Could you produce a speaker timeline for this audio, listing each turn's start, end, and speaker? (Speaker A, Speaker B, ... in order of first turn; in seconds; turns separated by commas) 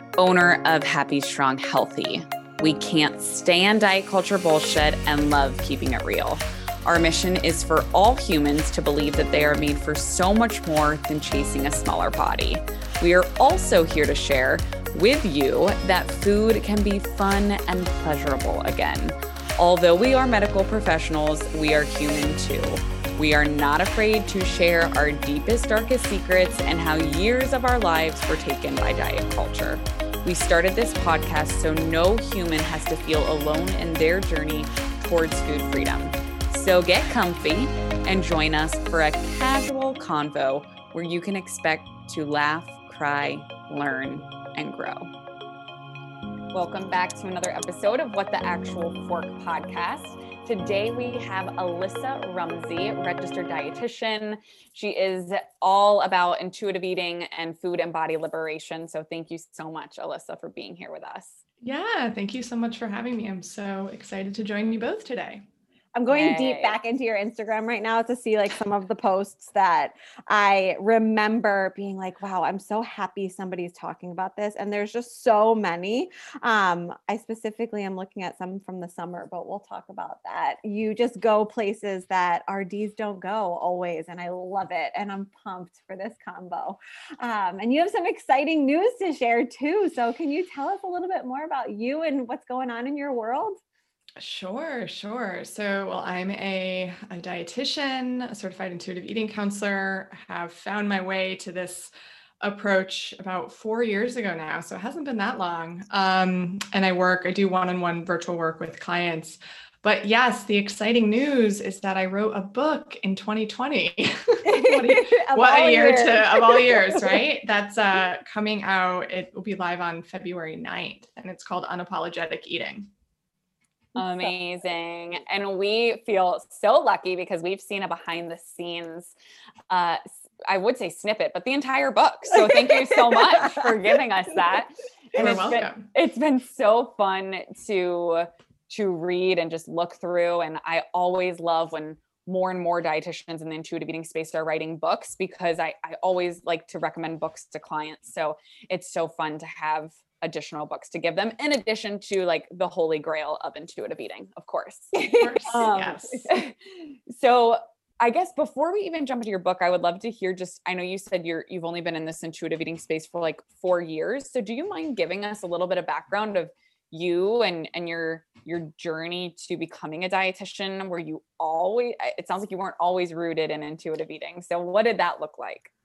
Speaker A: 0.2-45.1, Speaker A: 46.5-61.4, Speaker B: 61.6-65.4, Speaker C: 65.9-93.6, Speaker A: 66.1-66.8, Speaker B: 94.2-101.9, Speaker B: 102.4-122.9, Speaker C: 114.4-117.3, Speaker A: 124.0-129.1, Speaker C: 124.0-124.3, Speaker A: 129.7-154.9, Speaker B: 135.1-135.9, Speaker C: 154.9-156.2, Speaker B: 155.2-156.2, Speaker A: 155.5-156.5, Speaker A: 157.1-175.7